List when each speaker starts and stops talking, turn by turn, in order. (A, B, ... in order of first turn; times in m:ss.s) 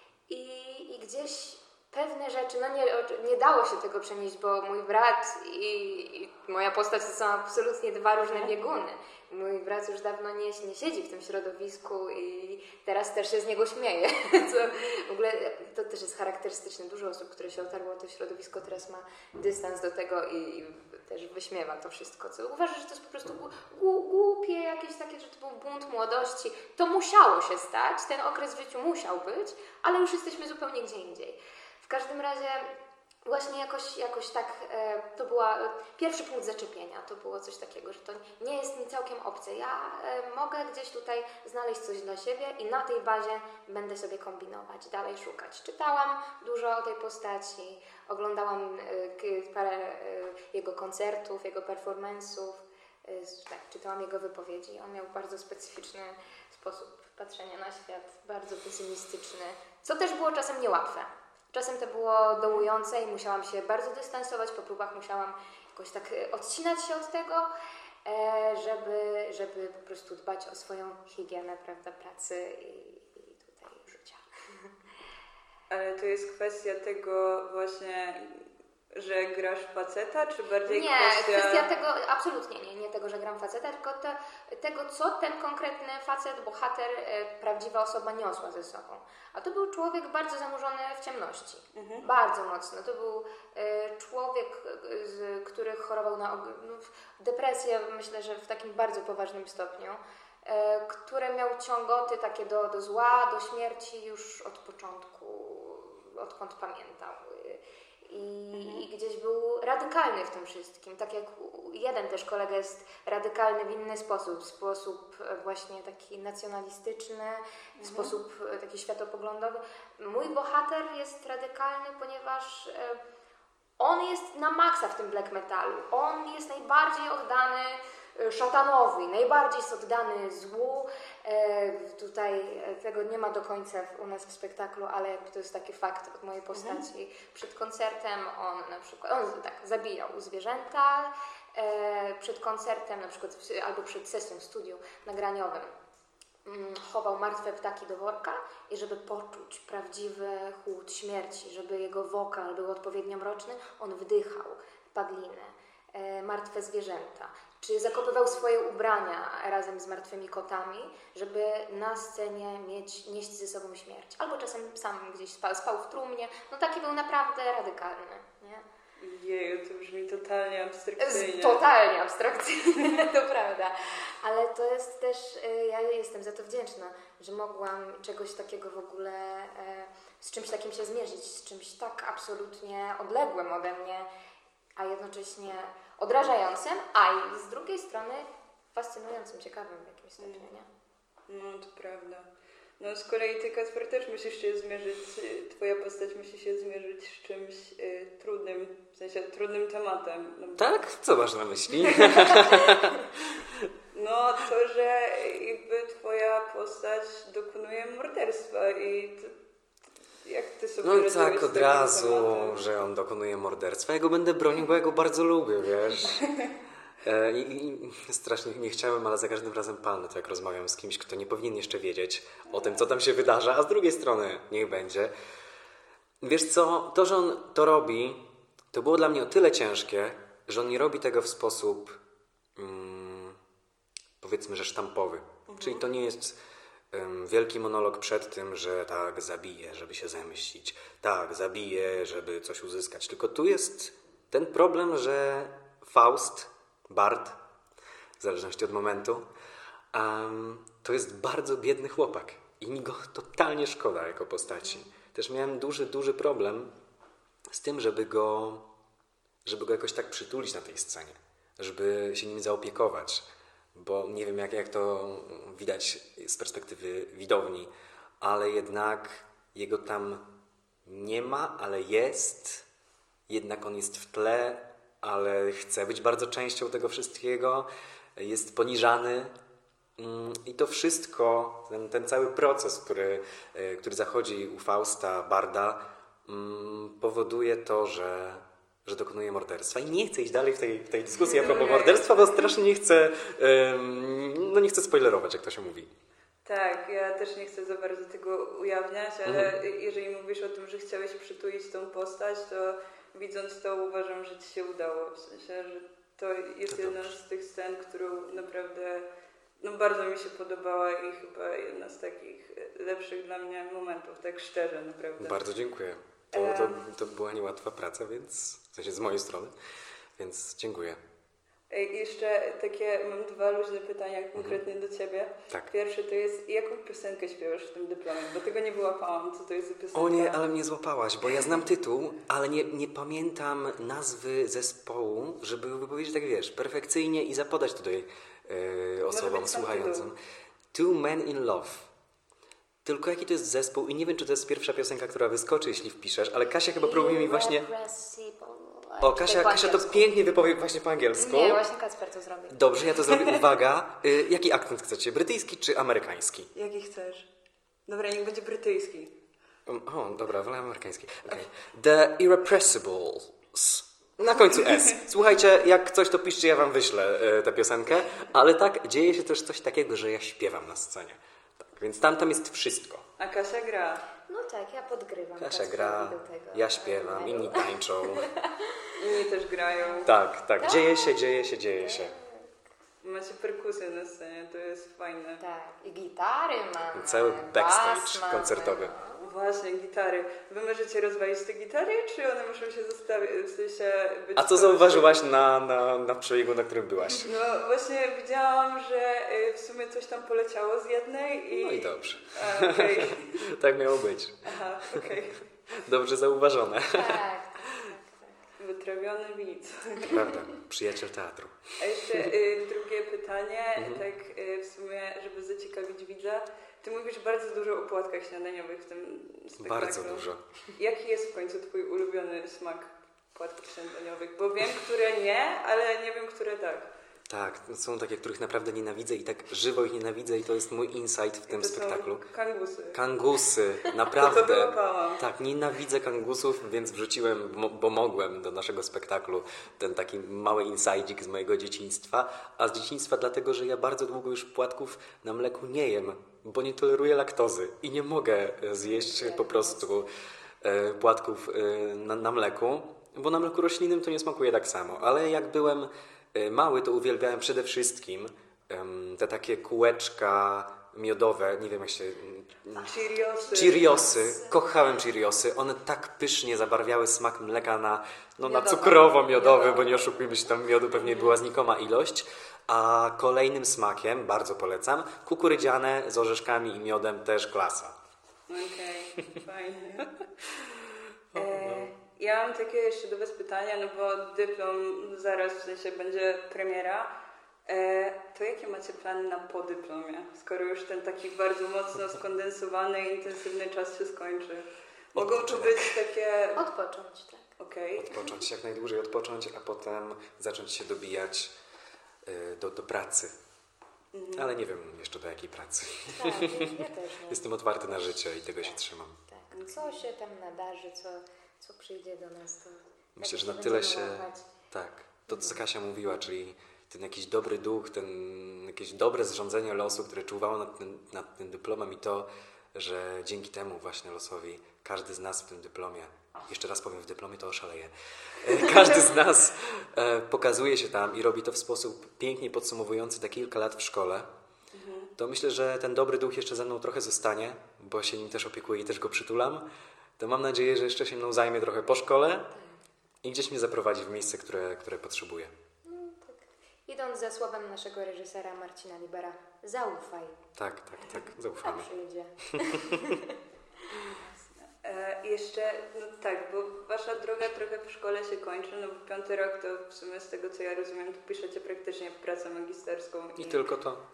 0:00.3-0:32.7 A
0:08.2-0:08.6 B
0:33.2-1:07.5 A
1:08.0-1:14.7 A
1:15.7-1:21.7 B
1:20.6-2:03.0 A
1:31.7-1:32.1 B
1:48.5-1:48.8 B
1:57.8-1:58.1 B
2:03.8-2:25.7 A
2:16.5-2:16.8 B
2:26.4-2:48.6 A
2:49.0-2:51.6 B
2:51.0-3:04.1 A
3:04.8-3:10.7 A
3:10.2-3:10.5 B
3:11.3-3:12.3 B
3:12.8-3:20.8 B
3:20.6-3:23.7 C
3:21.8-3:22.8 B
3:23.9-3:29.3 B
3:30.2-3:32.6 B
3:30.8-3:36.2 C
3:36.1-3:36.5 B
3:37.0-3:45.1 C
3:42.4-3:42.8 B
3:46.2-3:52.0 C
3:52.6-3:53.4 C
3:54.2-3:56.4 C
3:55.5-3:55.9 B
3:56.9-4:07.4 C
4:08.2-4:09.3 C
4:09.9-4:16.7 C
4:17.5-4:18.7 C
4:19.4-4:30.2 C
4:30.8-4:32.7 C
4:33.3-4:39.3 C
4:40.0-4:55.9 C
4:51.2-4:52.5 B
4:56.4-5:09.1 B
4:59.2-4:59.5 C
5:06.7-5:07.1 C
5:09.6-5:15.4 B
5:15.2-5:19.5 C
5:16.3-5:16.8 B
5:20.2-5:21.0 C
5:21.7-5:30.4 B
5:24.4-5:24.6 C
5:29.9-5:40.2 C
5:39.1-5:40.1 B
5:40.7-5:41.9 C
5:42.8-5:47.6 C
5:46.8-5:50.1 A
5:49.0-5:51.6 C
5:51.2-5:52.9 A
5:52.5-5:56.5 C
5:56.5-5:57.3 B
5:57.9-5:59.2 B
5:59.6-6:13.0 C
6:13.2-6:14.0 B
6:14.3-6:18.9 A
6:15.4-6:18.3 C
6:19.0-6:20.1 B
6:19.6-6:20.1 A
6:20.0-6:22.1 C
6:20.6-6:22.5 A
6:23.0-6:25.4 B
6:25.4-6:29.3 A
6:26.9-6:28.9 C
6:29.2-6:35.2 B
6:34.4-6:37.3 C
6:37.2-6:43.5 B
6:41.5-6:45.1 C
6:44.4-6:45.4 B
6:45.7-6:47.7 C
6:46.9-6:48.4 A
6:48.6-6:50.3 B
6:50.0-6:52.3 C
6:51.8-7:06.9 B
6:53.8-6:54.0 C
6:59.6-7:00.4 C
7:07.3-7:12.2 C
7:11.5-7:13.0 B
7:12.9-7:30.1 C
7:14.0-7:15.2 B
7:28.8-7:30.1 A
7:30.6-7:43.0 C
7:42.7-7:44.1 B
7:43.5-7:58.0 C
7:43.5-7:44.6 A
7:48.4-7:50.4 A
7:51.0-7:51.3 B
7:58.5-8:00.3 B
8:01.3-8:01.9 C
8:01.3-8:07.1 B
8:07.6-8:16.6 B
8:15.1-8:16.0 C
8:16.6-8:17.5 A
8:17.6-8:18.4 B
8:18.0-8:21.5 C
8:22.2-8:23.3 C
8:24.1-8:24.5 B
8:24.4-8:26.7 C
8:26.1-8:34.5 A
8:27.3-8:29.2 C
8:29.5-8:30.0 B
8:33.2-8:54.3 C
8:54.7-8:55.1 B
8:55.2-8:59.6 C
9:00.2-9:02.5 C
9:03.2-9:05.5 C
9:05.8-9:10.4 A
9:10.6-9:11.9 C
9:11.6-9:13.3 A
9:12.5-9:13.0 C
9:14.1-9:23.7 B
9:23.4-9:24.0 C